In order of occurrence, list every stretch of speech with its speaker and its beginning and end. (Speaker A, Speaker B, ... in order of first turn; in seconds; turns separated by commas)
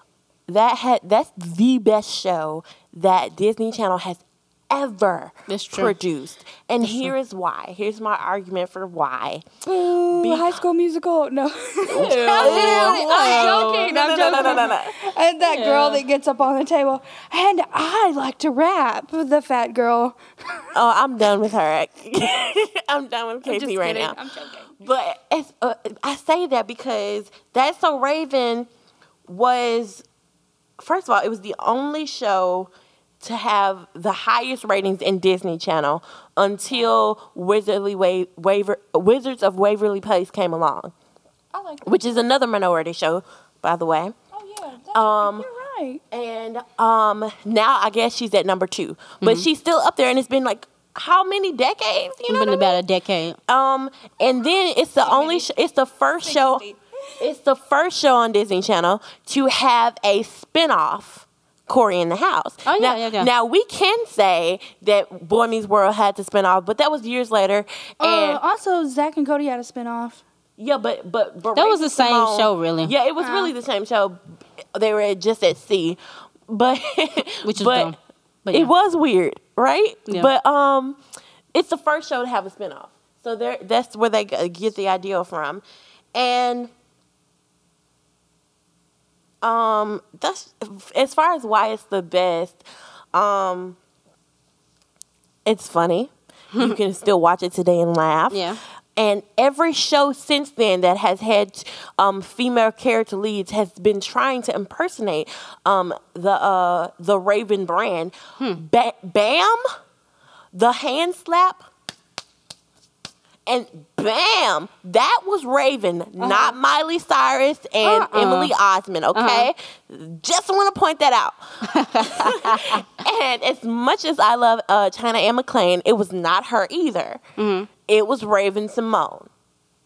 Speaker A: 0.5-9.4, Speaker B: 5.5-5.9, Speaker B: 6.8-7.1, Speaker C: 9.7-20.2, Speaker A: 10.0-10.6, Speaker A: 11.9-14.9, Speaker B: 12.0-14.7, Speaker B: 15.4-16.0, Speaker A: 20.7-24.2, Speaker C: 23.4-24.7, Speaker A: 24.8-28.7, Speaker A: 29.3-30.0, Speaker A: 30.8-40.9, Speaker C: 41.5-41.9, Speaker A: 41.8-44.1, Speaker C: 44.3-46.0, Speaker A: 44.9-45.5, Speaker A: 46.1-52.8, Speaker B: 49.2-49.5, Speaker B: 52.3-53.4, Speaker A: 53.5-56.6, Speaker C: 55.0-55.5, Speaker C: 56.2-56.8, Speaker A: 57.2-68.4, Speaker B: 62.6-63.3, Speaker C: 68.0-70.2, Speaker A: 70.6-74.2, Speaker B: 71.5-72.9, Speaker C: 73.2-73.5, Speaker A: 74.7-77.9, Speaker B: 77.4-78.7, Speaker A: 78.5-81.0, Speaker A: 81.5-85.6, Speaker A: 86.1-86.7, Speaker A: 89.4-92.6, Speaker A: 93.1-93.8, Speaker A: 95.5-109.6, Speaker B: 96.5-96.8, Speaker B: 98.3-98.6, Speaker A: 110.5-111.6, Speaker A: 113.5-127.2, Speaker B: 116.2-116.5, Speaker B: 117.8-118.5, Speaker B: 119.1-119.5, Speaker B: 121.7-122.8, Speaker B: 127.4-127.7, Speaker A: 127.9-129.3